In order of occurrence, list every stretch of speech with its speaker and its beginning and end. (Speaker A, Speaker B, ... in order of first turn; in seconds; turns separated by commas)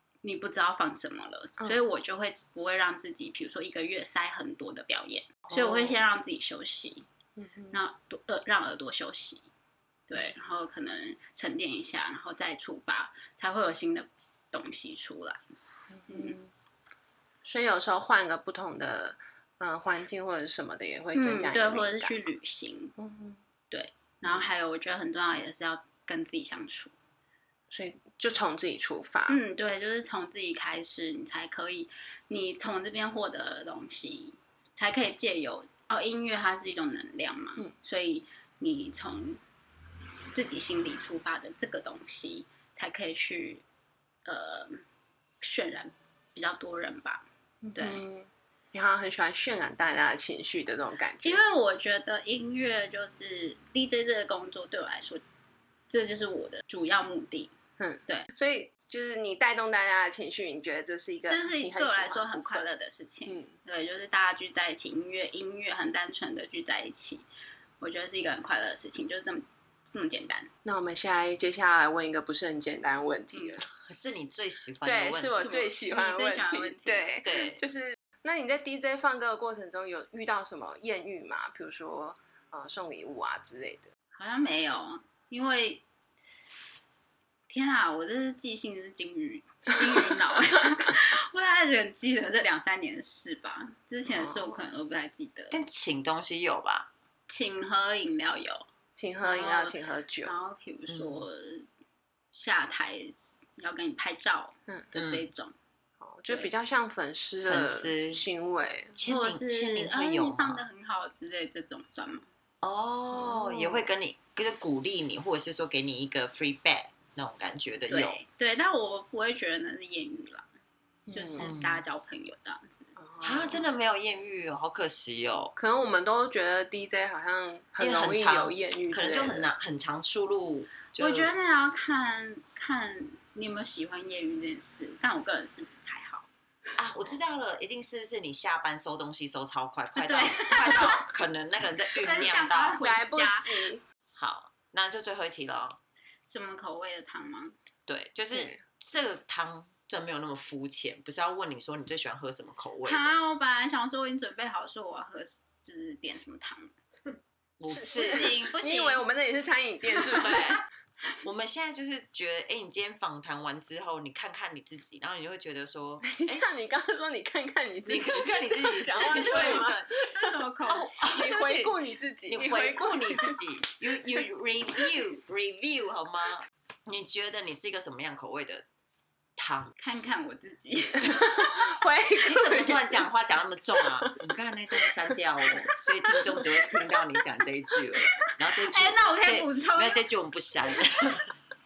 Speaker A: 0.2-7.0, Speaker B: 5.5-6.0, Speaker B: 7.4-7.8, Speaker A: 7.7-9.4, Speaker A: 10.1-15.4, Speaker B: 15.9-16.5, Speaker A: 16.1-16.4, Speaker B: 17.4-22.2, Speaker A: 21.1-22.9, Speaker B: 23.0-23.4, Speaker A: 23.7-26.9, Speaker B: 27.7-29.4, Speaker A: 29.3-39.4, Speaker A: 40.3-43.6, Speaker A: 44.2-44.8, Speaker A: 45.4-48.0, Speaker B: 47.6-51.4, Speaker A: 51.2-55.2, Speaker A: 55.9-57.5, Speaker B: 57.8-62.6, Speaker A: 61.3-67.2, Speaker B: 63.2-63.5, Speaker A: 67.8-70.5, Speaker B: 70.6-73.7, Speaker A: 73.3-73.6, Speaker C: 73.8-75.6, Speaker B: 74.8-83.9, Speaker A: 75.4-77.2, Speaker C: 77.2-77.6, Speaker A: 84.1-85.8, Speaker A: 87.5-95.6, Speaker B: 94.1-94.6, Speaker C: 95.5-96.9, Speaker A: 97.3-98.7, Speaker B: 99.0-100.3, Speaker A: 99.2-101.7, Speaker C: 100.9-101.2, Speaker A: 102.3-105.5, Speaker C: 104.9-105.2, Speaker B: 106.0-109.0, Speaker C: 107.5-108.2, Speaker C: 109.0-110.6, Speaker A: 109.0-112.2, Speaker C: 112.6-118.2, Speaker B: 113.1-113.9, Speaker A: 117.9-120.5, Speaker B: 121.1-121.5, Speaker A: 121.1-123.0, Speaker C: 121.4-121.8, Speaker B: 123.0-123.7, Speaker C: 123.2-125.5, Speaker B: 125.5-129.5, Speaker C: 127.8-131.3, Speaker A: 131.0-136.3, Speaker C: 136.8-142.8, Speaker A: 139.9-141.1, Speaker A: 141.9-143.5, Speaker B: 142.8-143.8, Speaker C: 144.1-145.8, Speaker A: 146.3-147.5, Speaker C: 147.9-153.2, Speaker B: 148.3-148.6, Speaker A: 152.8-156.7, Speaker C: 157.6-159.0, Speaker B: 157.7-160.6, Speaker A: 157.8-158.9, Speaker C: 160.0-160.6, Speaker C: 161.2-166.4, Speaker B: 166.0-169.8, Speaker C: 167.8-170.0, Speaker A: 169.1-171.3, Speaker C: 170.7-171.8, Speaker B: 171.1-173.4, Speaker C: 172.3-178.6, Speaker C: 179.4-179.8, Speaker A: 179.8-181.5, Speaker B: 180.9-184.2, Speaker C: 182.2-191.3, Speaker B: 184.9-185.2, Speaker A: 187.9-190.0